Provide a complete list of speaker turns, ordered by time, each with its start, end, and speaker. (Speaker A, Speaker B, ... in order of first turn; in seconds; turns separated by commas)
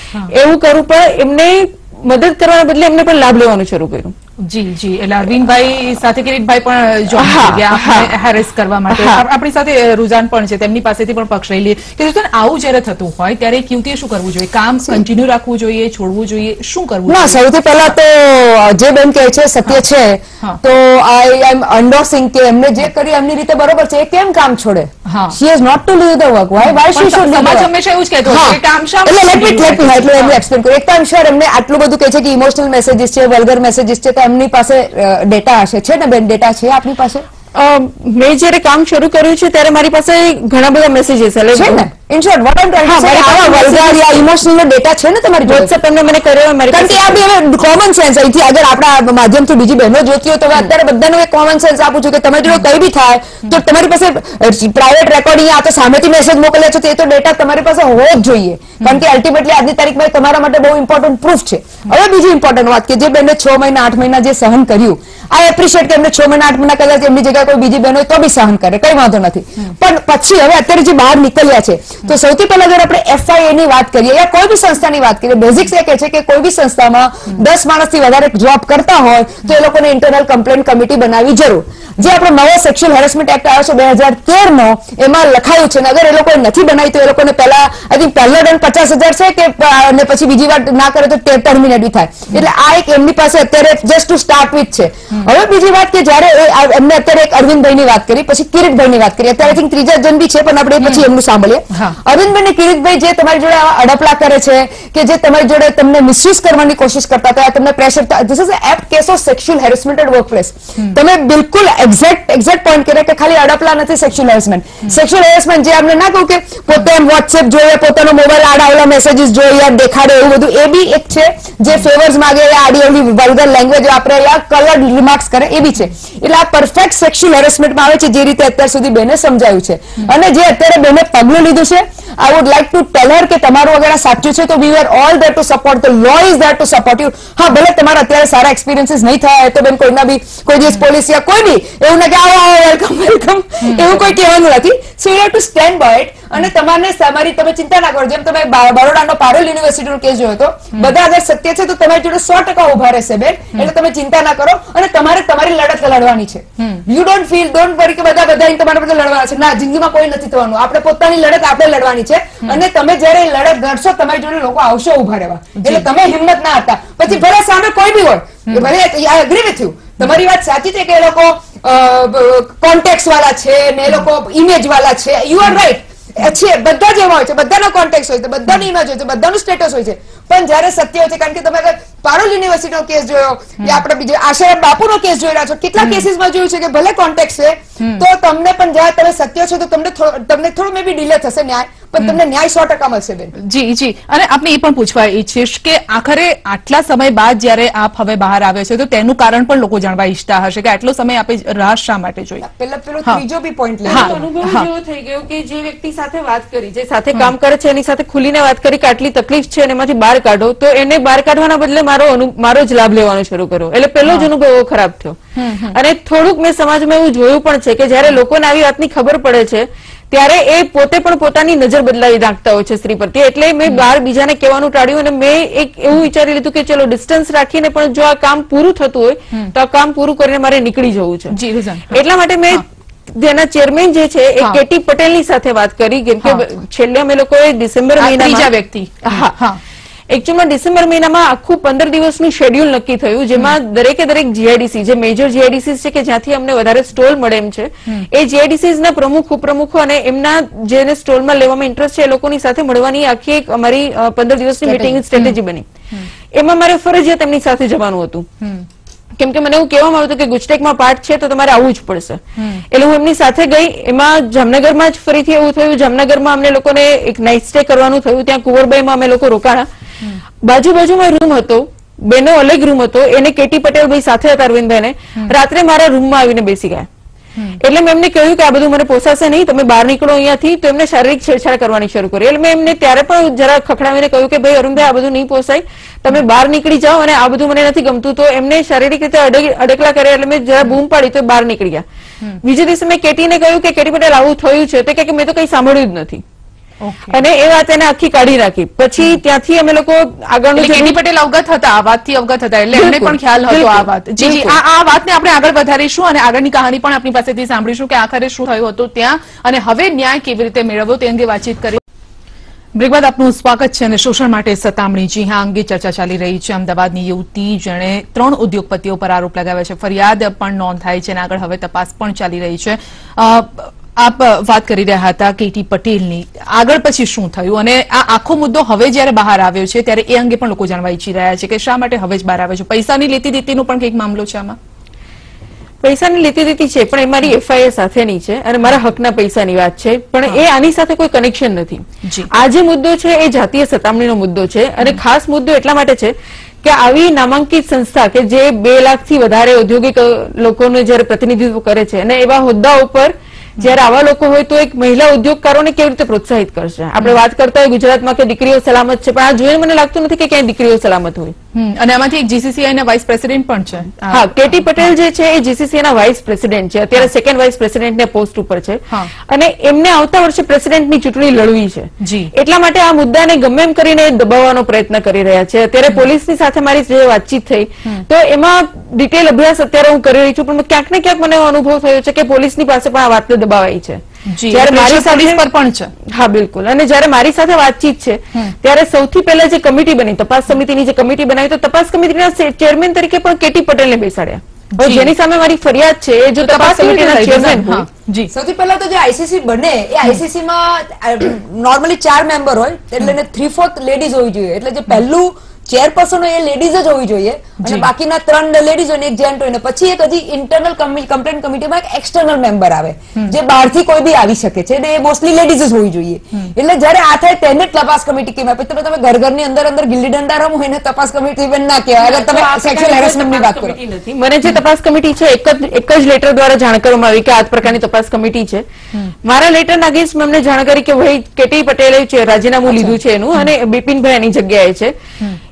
Speaker A: 0.3-4.1, Speaker B: 4.4-17.4, Speaker A: 7.2-8.2, Speaker A: 8.9-9.2, Speaker C: 17.1-27.7, Speaker B: 25.0-25.4, Speaker B: 26.6-30.4, Speaker C: 28.2-37.2, Speaker A: 37.5-41.8, Speaker C: 41.5-45.7, Speaker A: 42.8-44.2, Speaker A: 45.5-47.2, Speaker C: 46.7-193.3, Speaker B: 100.8-101.0, Speaker B: 101.7-102.0, Speaker B: 143.6-144.1, Speaker B: 156.6-156.8, Speaker B: 165.6-165.9, Speaker B: 185.8-186.0, Speaker B: 187.8-188.0, Speaker B: 193.4-202.4, Speaker C: 202.4-204.2, Speaker A: 203.8-215.2, Speaker B: 203.9-204.7, Speaker B: 214.0-214.3, Speaker B: 215.3-215.8, Speaker A: 215.7-231.3, Speaker B: 231.3-232.6, Speaker A: 231.9-238.5, Speaker B: 238.0-239.6, Speaker A: 239.0-239.3, Speaker A: 240.1-255.7, Speaker C: 254.7-255.0, Speaker B: 255.1-255.4, Speaker A: 256.3-258.3, Speaker B: 258.4-258.7, Speaker A: 259.2-269.6, Speaker B: 262.4-262.6, Speaker A: 270.4-276.9, Speaker A: 277.6-291.8, Speaker A: 292.4-296.2, Speaker B: 296.8-297.2, Speaker A: 297.1-301.0, Speaker B: 300.5-311.8, Speaker A: 302.7-304.6, Speaker B: 312.8-334.6, Speaker A: 335.8-361.3, Speaker B: 342.0-342.3, Speaker B: 361.5-364.9, Speaker A: 364.1-385.4, Speaker B: 372.0-372.3, Speaker B: 384.3-385.9, Speaker A: 386.1-397.9, Speaker B: 394.7-395.1, Speaker B: 396.4-398.3, Speaker C: 398.3-423.8, Speaker B: 407.6-407.9, Speaker A: 422.0-428.6, Speaker A: 429.2-434.9